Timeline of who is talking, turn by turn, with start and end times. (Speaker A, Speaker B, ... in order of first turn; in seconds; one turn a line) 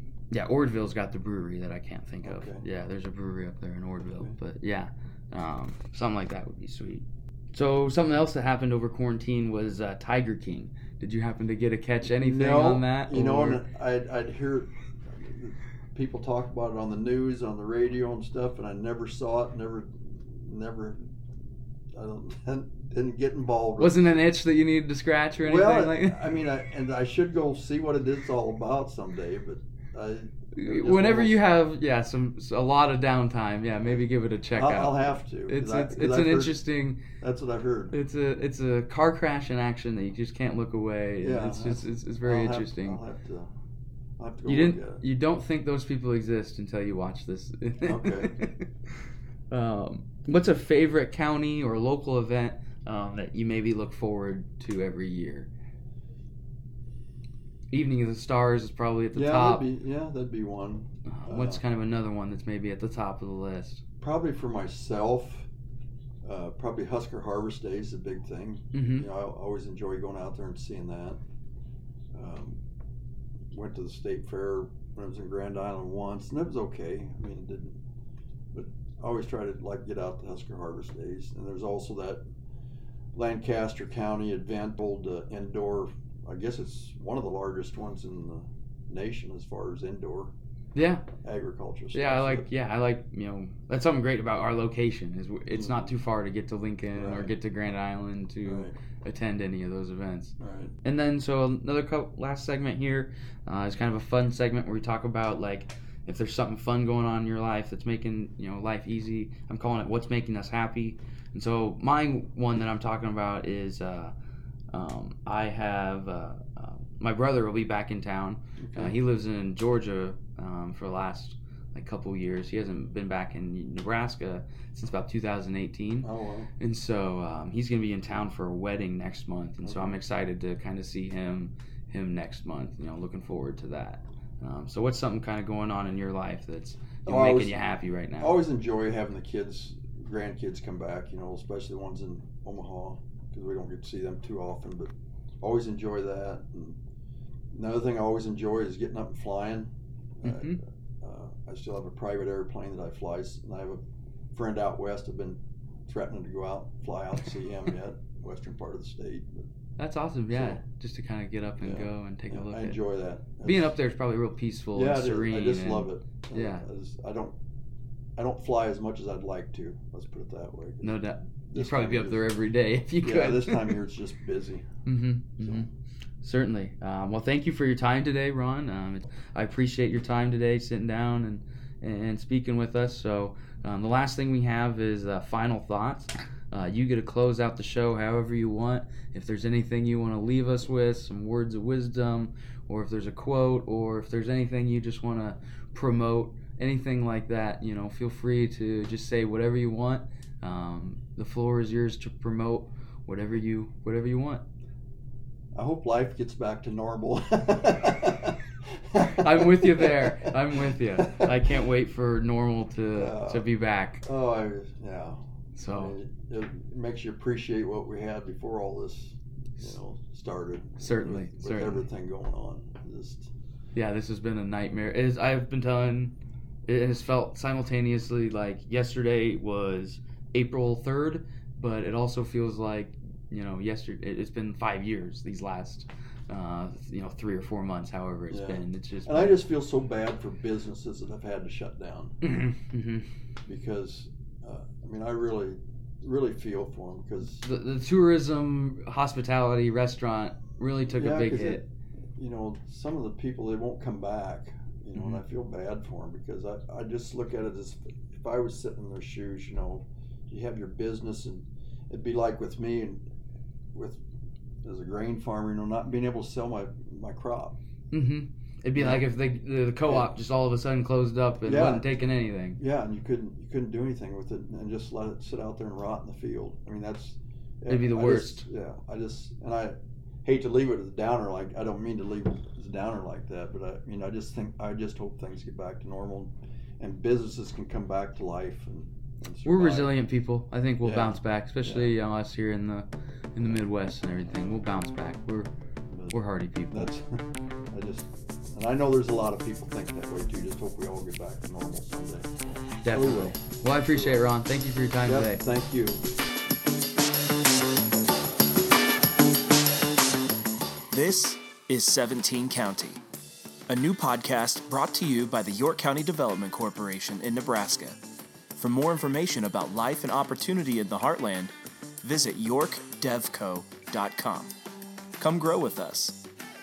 Speaker A: 0.3-13.6
Speaker B: 2.2-2.6
Speaker B: 12.1-21.1
Speaker B: 21.9-24.1
Speaker A: 23.8-26.3
Speaker B: 25.4-31.4
Speaker A: 30.5-37.0
Speaker B: 34.5-37.9
Speaker A: 37.9-43.0
Speaker B: 41.2-43.5
Speaker B: 44.2-45.0
Speaker A: 44.5-55.5
Speaker B: 47.8-48.4
Speaker A: 57.7-59.6
Speaker B: 59.1-61.6
Speaker A: 61.0-63.8
Speaker B: 64.0-65.5
Speaker B: 66.2-71.2
Speaker A: 68.7-69.0
Speaker B: 72.1-72.6
Speaker B: 73.5-77.8
Speaker B: 78.5-82.2
Speaker B: 83.1-90.3
Speaker A: 90.7-91.1
Speaker B: 91.2-92.5
Speaker A: 91.9-114.1
Speaker B: 95.5-95.9
Speaker B: 96.9-97.3
Speaker B: 98.4-98.7
Speaker B: 100.4-100.7
Speaker A: 114.7-138.4
Speaker B: 118.6-118.9
Speaker B: 126.0-126.5
Speaker B: 129.6-129.9
Speaker B: 137.1-137.6
Speaker B: 138.2-146.8
Speaker B: 147.5-153.8
Speaker A: 150.2-150.6
Speaker B: 154.3-159.5
Speaker A: 159.8-162.8
Speaker B: 160.3-160.6
Speaker B: 161.6-163.7
Speaker A: 163.4-166.6
Speaker B: 164.7-167.3
Speaker B: 168.2-172.2
Speaker A: 170.8-173.8
Speaker B: 173.0-174.7
Speaker A: 174.8-175.7
Speaker B: 175.4-175.7
Speaker A: 176.2-204.4
Speaker B: 205.5-211.4
Speaker A: 209.0-214.0
Speaker B: 212.9-213.5
Speaker B: 214.0-215.2
Speaker A: 215.6-215.9
Speaker B: 215.7-223.3
Speaker A: 220.8-221.8
Speaker A: 223.7-226.1
Speaker A: 226.7-239.4
Speaker B: 238.3-242.1
Speaker A: 242.2-243.1
Speaker B: 243.4-247.4
Speaker A: 247.4-251.7
Speaker B: 250.9-251.6
Speaker B: 252.1-263.0
Speaker B: 263.7-264.0
Speaker B: 264.6-267.6
Speaker A: 267.9-272.6
Speaker B: 268.7-269.0
Speaker B: 269.9-270.1
Speaker B: 271.4-272.0
Speaker B: 272.6-289.9
Speaker A: 277.7-278.5
Speaker A: 289.4-295.5
Speaker B: 290.8-291.9
Speaker A: 296.1-296.9
Speaker B: 296.7-304.2
Speaker A: 302.8-305.4
Speaker B: 305.1-306.0
Speaker C: 310.9-313.0
Speaker C: 313.7-318.0
Speaker C: 318.6-324.5
Speaker C: 325.2-326.2